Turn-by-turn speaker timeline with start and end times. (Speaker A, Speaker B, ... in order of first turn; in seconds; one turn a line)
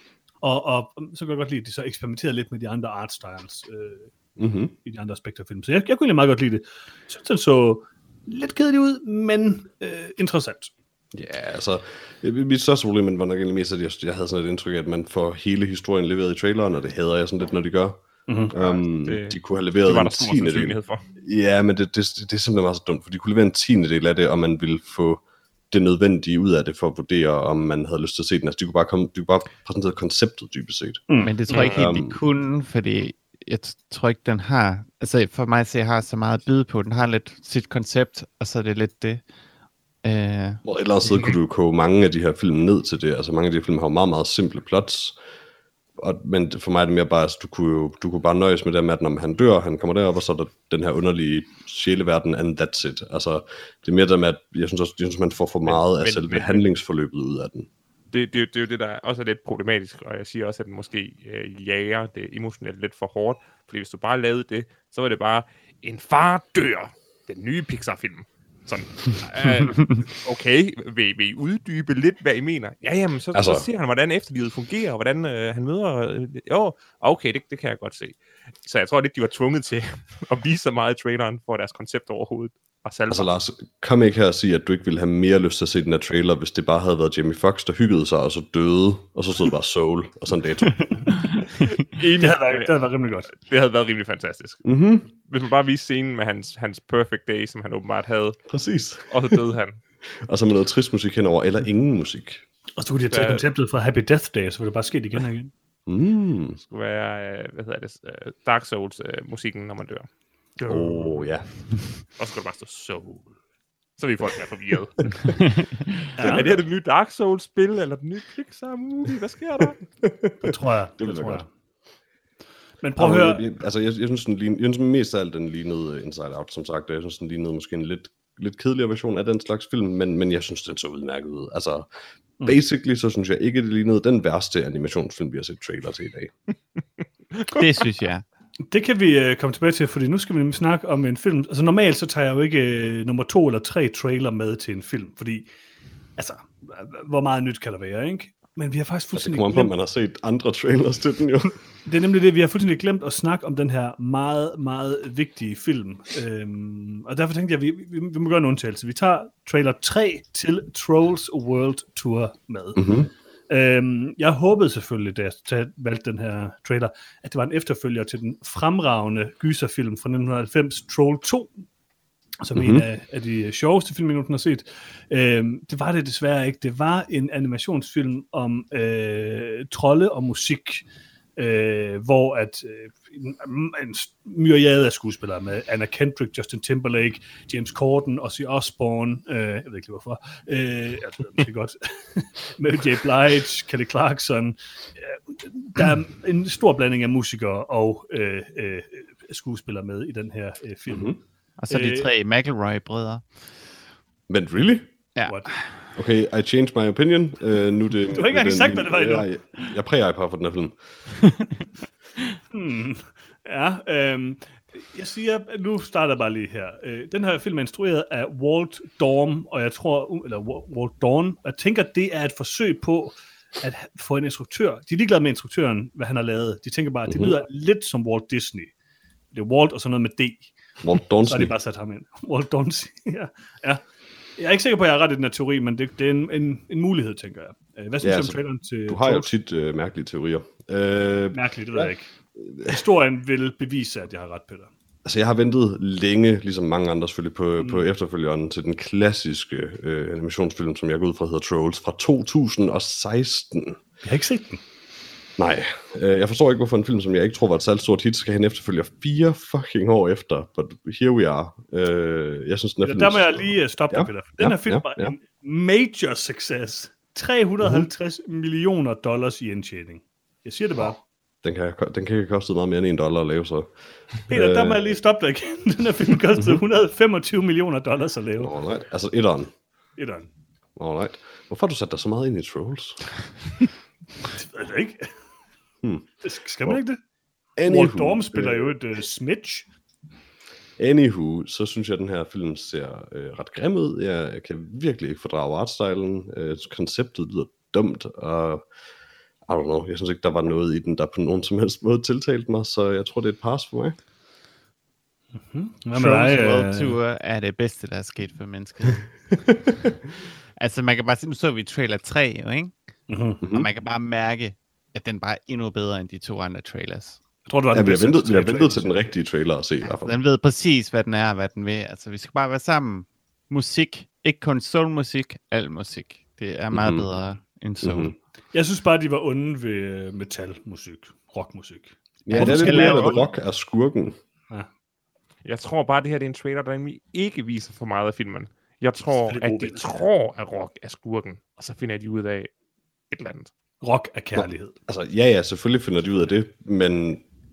Speaker A: 0.4-4.1
Speaker B: 4.4-4.7
Speaker A: 4.8-10.7
Speaker B: 11.1-32.2
Speaker A: 18.3-18.5
Speaker C: 18.5-21.0
Speaker A: 31.1-31.5
Speaker D: 31.2-39.2
Speaker C: 31.5-31.9
Speaker D: 40.0-40.6
Speaker B: 40.6-45.2
Speaker B: 46.0-57.7
Speaker C: 55.7-56.6
Speaker C: 58.1-83.3
Speaker B: 73.3-73.7
Speaker B: 83.1-91.1
Speaker C: 91.7-92.7
Speaker A: 92.2-93.3
Speaker C: 93.3-98.4
Speaker B: 94.7-95.1
Speaker B: 98.5-99.4
Speaker C: 99.1-99.8
Speaker B: 100.2-102.4
Speaker A: 102.8-105.5
Speaker C: 103.1-103.5
Speaker B: 105.9-106.6
Speaker C: 106.6-110.1
Speaker A: 110.6-111.2
Speaker B: 110.7-111.5
Speaker C: 112.2-113.3
Speaker C: 114.0-115.4
Speaker A: 116.2-116.5
Speaker C: 116.2-119.8
Speaker B: 120.0-121.4
Speaker A: 120.4-121.5
Speaker A: 122.8-123.5
Speaker B: 123.0-131.9
Speaker B: 132.4-136.3
Speaker D: 137.5-138.2
Speaker A: 138.7-145.5
Speaker A: 146.2-149.7
Speaker B: 149.2-151.6
Speaker A: 151.9-162.9
Speaker B: 162.8-163.1
Speaker A: 163.5-171.5
Speaker A: 172.4-180.8
Speaker B: 172.6-172.9
Speaker A: 181.4-201.1
Speaker B: 200.9-201.2
Speaker D: 201.6-203.2
Speaker A: 201.7-202.1
Speaker B: 204.3-204.9
Speaker D: 205.2-205.5
Speaker A: 205.3-205.6
Speaker B: 206.0-210.8
Speaker A: 208.1-209.3
Speaker A: 212.5-228.7
Speaker B: 227.1-227.4
Speaker A: 229.3-230.5
Speaker B: 230.8-231.5
Speaker A: 231.2-233.8
Speaker A: 234.4-239.3
Speaker B: 238.0-242.8
Speaker A: 241.3-242.1
Speaker A: 242.6-244.7
Speaker B: 245.1-253.8
Speaker A: 247.6-247.8
Speaker A: 254.0-254.6
Speaker B: 255.4-265.1
Speaker A: 262.8-271.0
Speaker B: 271.4-273.7
Speaker B: 274.3-275.0
Speaker A: 274.3-278.5
Speaker B: 278.4-279.5
Speaker A: 280.0-280.3
Speaker B: 280.8-283.1
Speaker A: 284.3-285.1
Speaker B: 285.8-286.1
Speaker A: 286.2-287.0
Speaker B: 287.6-288.7
Speaker A: 287.7-289.7
Speaker B: 290.8-298.6
Speaker B: 299.5-304.0
Speaker A: 305.4-307.0
Speaker D: 305.9-309.1
Speaker B: 309.5-309.9
Speaker D: 310.6-312.7
Speaker A: 313.1-313.4
Speaker B: 313.4-313.7
Speaker D: 313.5-317.2
Speaker A: 317.5-319.0
Speaker B: 317.7-320.2
Speaker D: 320.0-328.1
Speaker B: 326.7-327.1
Speaker B: 327.8-328.1
Speaker A: 328.5-333.3
Speaker B: 332.2-334.2
Speaker D: 332.3-333.2
Speaker C: 335.4-342.5
Speaker A: 339.1-340.1
Speaker C: 343.1-343.5
Speaker A: 343.8-344.8
Speaker B: 344.4-347.2